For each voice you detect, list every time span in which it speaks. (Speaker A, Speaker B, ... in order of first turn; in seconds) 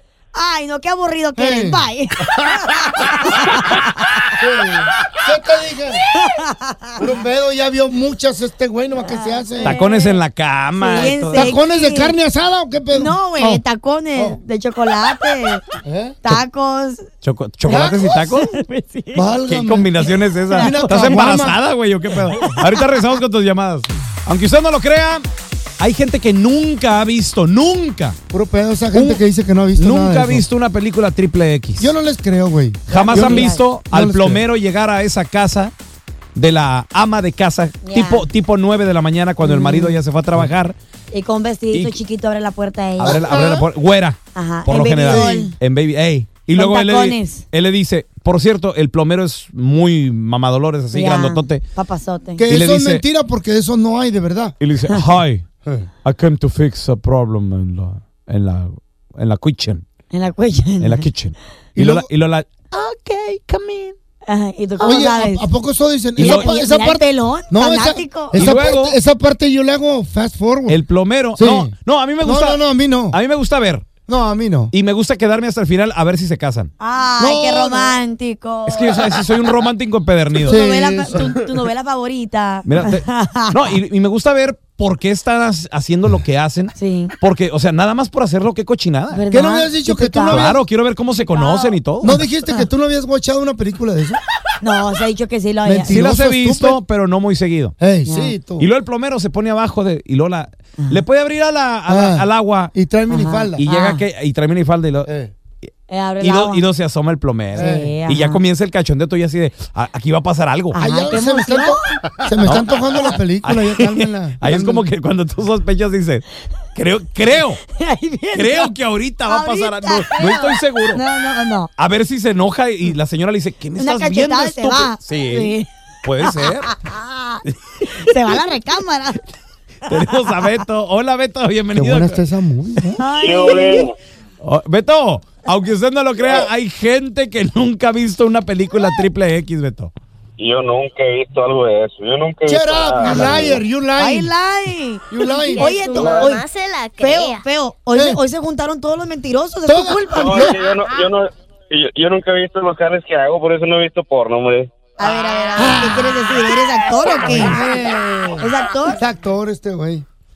Speaker A: 0.3-4.3, 6.2-6.9, 9.0-10.2, 10.8-12.2, 12.9-15.6, 16.2-17.1, 18.1-19.3, 20.4-21.3, 22.3-23.0, 32.9-33.6, 37.8-38.3, 39.4-40.0, 41.1-43.5, 44.3-45.5, 46.5-47.5, 50.9-52.5, 60.1-61.0, 64.3-65.5, 66.2-68.4, 76.8-79.3, 80.4-83.8, 86.7-87.1, 89.1-90.6, 91.3-91.8, 94.6-96.0, 98.0-98.3, 103.1-104.0, 105.9-106.7, 107.5-108.4, 110.7-111.9, 117.7-118.7, 119.3-121.7, 123.8-125.7, 126.2-129.2, 129.9-130.3, 133.0-133.9, 144.0-146.4, 147.0-150.6, 155.0-157.6, 158.4-159.0
Speaker B: 1.4-1.9, 4.4-6.1, 7.0-9.8, 11.3-13.6, 15.8-16.2, 17.6-18.2, 19.1-19.9, 20.6-21.6, 28.3-30.5, 31.8-34.4, 43.0-43.7, 45.0-45.5, 52.4-54.5, 61.8-62.1, 64.8-70.8, 71.3-73.2, 74.1-74.7, 77.2-78.0, 80.5-81.3, 89.3-90.6, 92.0-94.2, 95.6-96.8, 97.8-98.7, 101.9-103.6, 105.0-105.3, 107.5-107.9, 110.8-114.9, 131.7-133.0, 142.5-144.3, 145.1-145.7, 147.9-148.2, 149.7-150.6, 157.2-160.0
Speaker C: 9.6-11.5, 17.2-18.6, 19.5-25.2, 25.8-28.2, 28.9-29.2, 29.8-31.9, 32.9-35.7, 36.3-40.8, 41.7-42.0, 43.0-51.6, 52.5-53.0, 54.6-55.5, 56.0-59.8, 60.8-64.0, 66.2-66.5, 68.3-69.0, 70.7-73.9, 74.7-76.7, 78.7-80.6, 82.7-89.2, 90.3-92.2, 95.9-97.7, 98.6-102.7, 103.6-105.1, 106.2-110.8, 112.5-116.2, 116.7-117.6, 118.3-121.0, 121.8-126.7, 129.9-132.2, 134.4-139.9
Speaker D: 133.2-133.9, 145.3-147.4
Speaker E: 136.2-136.5, 140.4-143.6, 145.8-146.4, 150.1-154.7